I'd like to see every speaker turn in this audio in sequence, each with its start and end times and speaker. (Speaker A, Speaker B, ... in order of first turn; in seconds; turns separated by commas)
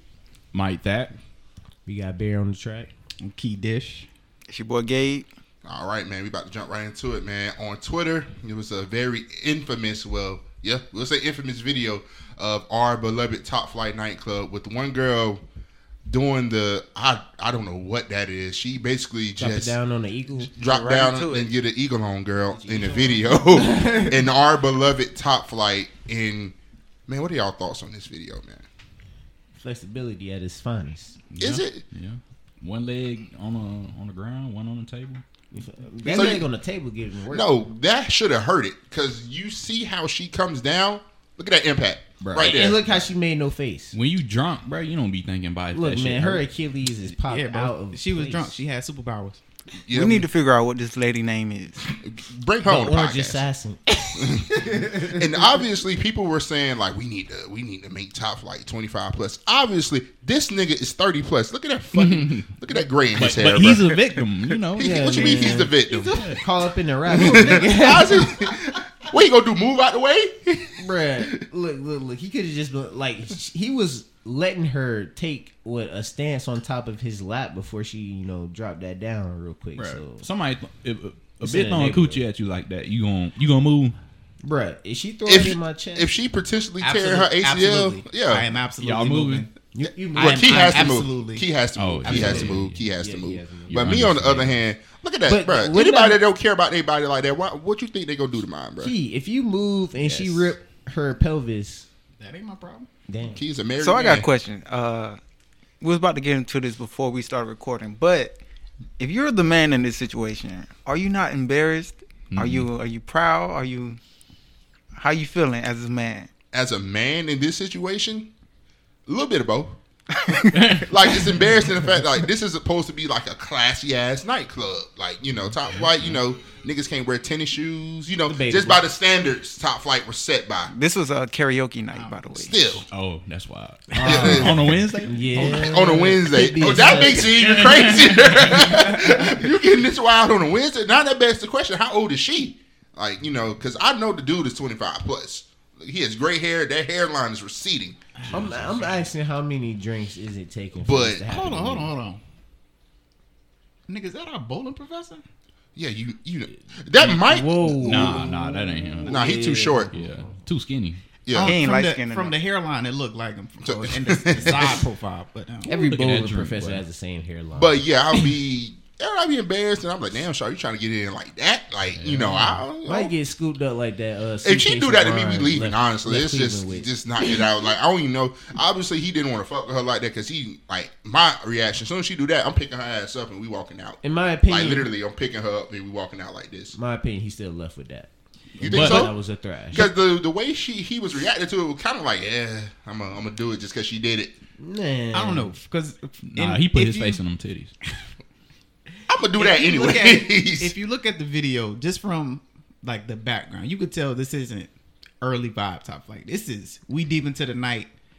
Speaker A: 0.5-1.1, Speaker B: 1.9-2.9, Speaker C: 3.2-4.1, Speaker D: 4.5-5.2, Speaker E: 5.7-15.4, Speaker E: 16.1-19.8, Speaker B: 19.4-20.5, Speaker E: 20.4-26.5, Speaker D: 20.6-21.5, Speaker B: 22.6-24.2, Speaker E: 27.1-28.6, Speaker B: 29.5-31.2, Speaker A: 31.3-35.2, Speaker E: 31.4-31.8, Speaker B: 35.5-37.5, Speaker C: 36.1-36.3, Speaker E: 36.1-36.5, Speaker E: 37.3-42.8, Speaker A: 42.2-42.8, Speaker B: 42.4-44.0, Speaker A: 43.9-46.4, Speaker B: 45.7-48.6, Speaker C: 47.0-49.4, Speaker E: 49.9-50.3, Speaker D: 49.9-51.9, Speaker E: 52.0-53.5, Speaker B: 52.6-55.3, Speaker E: 54.1-63.9, Speaker A: 61.9-62.5, Speaker A: 63.1-66.4, Speaker E: 64.8-66.2, Speaker B: 64.8-68.6, Speaker E: 67.1-71.4, Speaker B: 70.8-80.2, Speaker C: 79.8-80.0, Speaker A: 80.2-84.0, Speaker B: 81.4-82.2, Speaker B: 84.4-86.1, Speaker E: 85.2-88.5, Speaker C: 86.8-89.5, Speaker A: 88.8-89.5, Speaker B: 89.7-91.0, Speaker C: 90.1-91.5, Speaker E: 90.1-98.9, Speaker A: 91.8-92.8, Speaker C: 92.0-92.5, Speaker B: 92.1-93.9, Speaker A: 93.7-94.6, Speaker B: 95.3-96.2, Speaker B: 98.8-101.9, Speaker C: 100.0-100.4, Speaker C: 102.2-102.9, Speaker B: 103.1-103.4, Speaker E: 103.3-104.3, Speaker D: 103.8-105.2, Speaker D: 105.8-108.4, Speaker D: 109.0-114.0, Speaker A: 112.3-112.7, Speaker D: 115.0-116.3, Speaker E: 116.5-118.3, Speaker E: 119.1-119.8, Speaker D: 120.2-120.5, Speaker A: 120.5-120.9, Speaker E: 120.9-130.7, Speaker B: 128.2-128.8, Speaker D: 130.7-132.6, Speaker C: 131.9-132.2, Speaker E: 132.3-132.9, Speaker A: 132.9-135.9, Speaker B: 133.9-137.3, Speaker E: 134.0-134.6, Speaker E: 135.3-148.0, Speaker A: 136.8-138.7, Speaker A: 148.2-149.1, Speaker B: 148.3-151.9, Speaker E: 150.8-151.2, Speaker C: 151.3-152.2, Speaker C: 153.9-155.2, Speaker E: 155.8-158.2, Speaker C: 157.1-159.1, Speaker A: 157.8-159.2, Speaker B: 159.1-160.3, Speaker E: 159.1-159.9, Speaker A: 159.9-161.0, Speaker E: 161.2-161.6, Speaker C: 161.3-165.7, Speaker D: 161.4-162.4, Speaker E: 163.6-164.8, Speaker B: 165.7-167.8, Speaker A: 165.7-166.8, Speaker E: 167.6-173.1, Speaker A: 172.0-172.6, Speaker B: 172.8-176.9, Speaker E: 174.4-186.8, Speaker B: 184.0-184.9, Speaker B: 186.7-189.9, Speaker E: 188.6-189.2, Speaker A: 188.6-189.1, Speaker E: 189.7-194.3, Speaker B: 194.6-195.5, Speaker C: 195.1-197.2, Speaker A: 196.3-197.7, Speaker E: 199.1-200.7, Speaker C: 199.4-207.9